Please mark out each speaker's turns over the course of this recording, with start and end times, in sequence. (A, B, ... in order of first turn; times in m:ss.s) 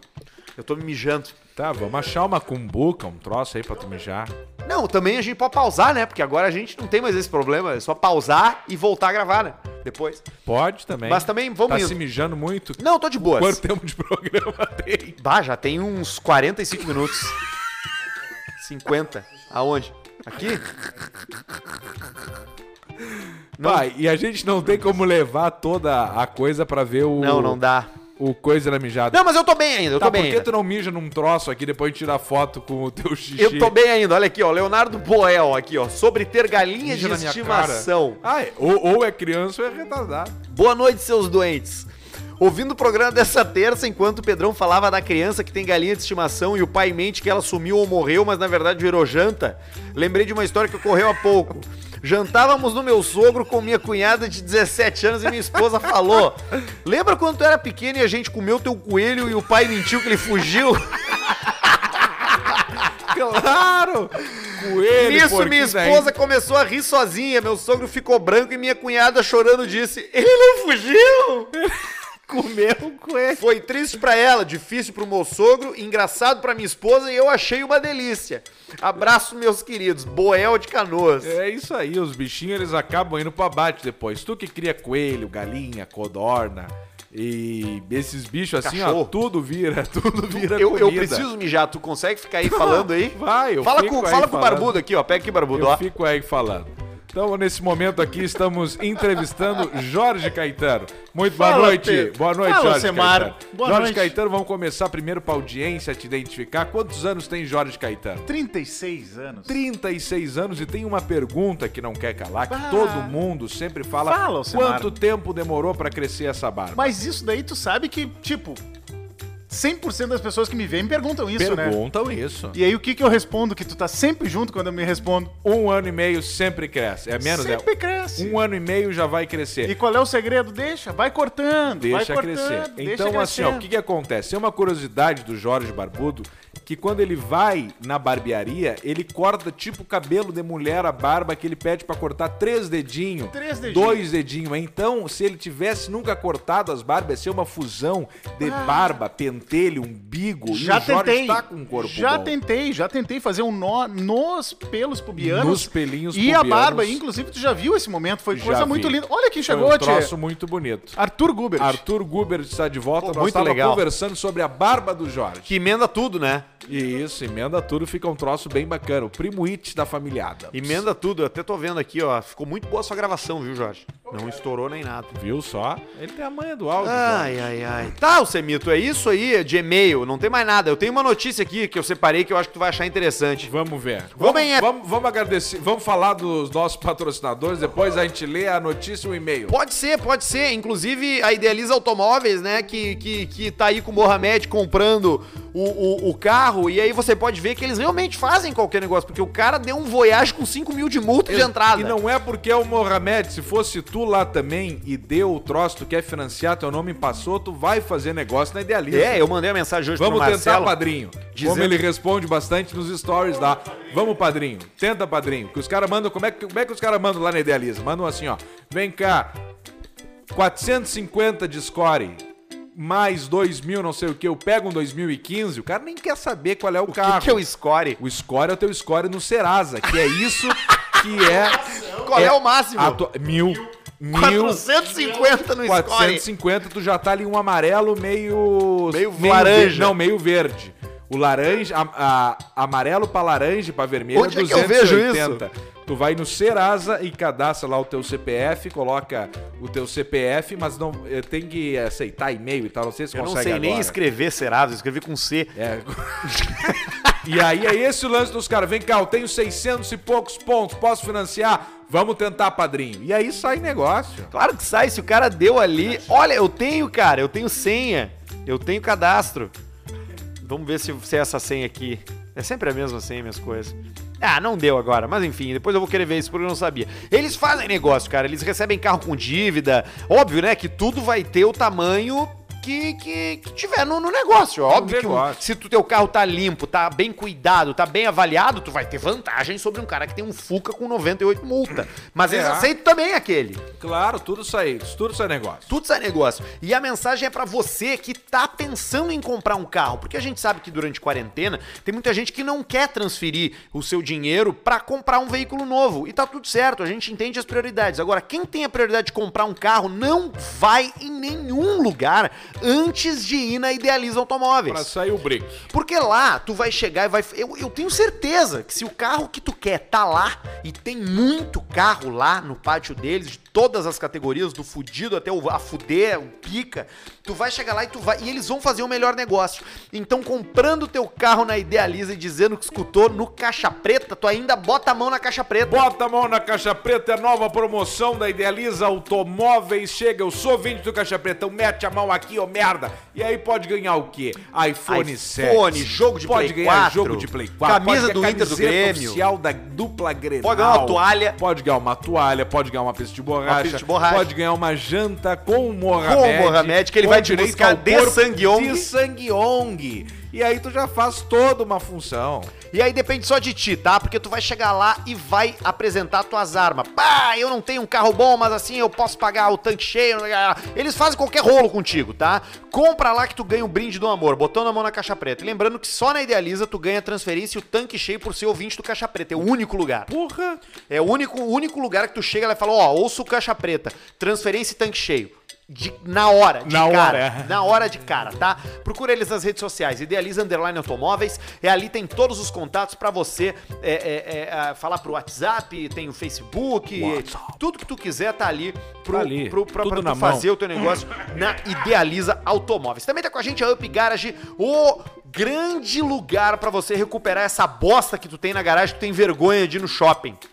0:00.6-0:01.4 A
0:01.6-0:04.3 B
0:04.6-0:10.3 A
0:10.5-0:15.2 B
0:11.0-0:12.0 A
0:12.8-0:13.6 A
0:15.2-0:17.4 A
0:18.6-0:20.7 A
0:23.1-0:27.6 B
0:23.6-0:23.9 A
0:27.2-0:27.9 A
0:28.2-0:29.2 B
0:29.1-0:30.5 A
0:30.0-0:33.8 B
0:33.4-0:38.2 A
0:36.8-0:40.4 B
0:40.5-1:01.6 A
1:03.0-1:06.1 B
1:04.8-1:11.5 A
1:11.6-1:13.4 B
1:13.4-1:21.4 A
1:21.2-1:31.3 B
1:28.6-1:29.1 A
1:30.3-1:35.8 A
1:32.4-1:34.8 B
1:35.5-1:48.3 B
1:41.3-1:44.2 C
1:48.3-1:49.6 C
1:49.5-1:56.9 B
1:52.5-1:53.2 C
1:54.0-1:55.0 C
1:56.7-1:58.6 C
1:59.5-2:01.8 C
2:01.4-2:02.6 B
2:02.5-2:05.3 C
2:05.4-2:09.7 B
2:07.2-2:08.4 C
2:09.6-2:13.7 C
2:11.8-2:32.3 B
2:23.3-2:24.1 C
2:28.4-2:29.0 C
2:30.5-2:40.1 C
2:35.2-2:37.0 B
2:38.3-2:41.0 B
2:41.0-2:41.8 C
2:41.6-2:45.5 B
2:43.0-2:43.9 A
2:45.4-2:46.5 A
2:46.7-2:50.8 B
2:50.5-2:55.2 A
2:55.1-2:57.5 B
2:56.8-3:03.5 A
3:03.4-3:09.5 B
3:04.2-3:04.7 A
3:09.5-3:22.0 A
3:21.3-3:29.2 B
3:28.9-3:30.8 A
3:30.0-3:39.3 B
3:31.3-3:31.8 A
3:40.3-3:42.2 B
3:42.8-3:47.4 B
3:46.9-3:48.0 A
3:48.0-3:54.6 B
3:52.0-3:53.0 A
3:54.1-3:56.2 A
3:55.6-4:14.0 B
3:58.9-4:00.0 A
4:04.1-4:05.4 A
4:13.1-4:15.5 A
4:15.6-4:24.3 B
4:16.7-4:17.0 A
4:24.3-4:29.5 A
4:30.4-4:53.6 A
4:44.7-4:45.4 B
4:52.3-4:52.7 B
4:53.8-4:55.7 B
4:55.7-5:14.9 A
5:14.7-5:15.7 B
5:15.7-5:35.8 A
5:35.6-6:02.5 B
5:44.9-5:49.2 A
5:50.4-5:51.4 A
5:53.4-5:54.3 A
5:56.0-5:58.9 A
6:02.7-6:20.1 A
6:20.1-6:20.6 B
6:20.9-6:50.4 A
6:26.6-6:27.8 B
6:37.0-6:37.6 B
6:39.1-6:40.5 B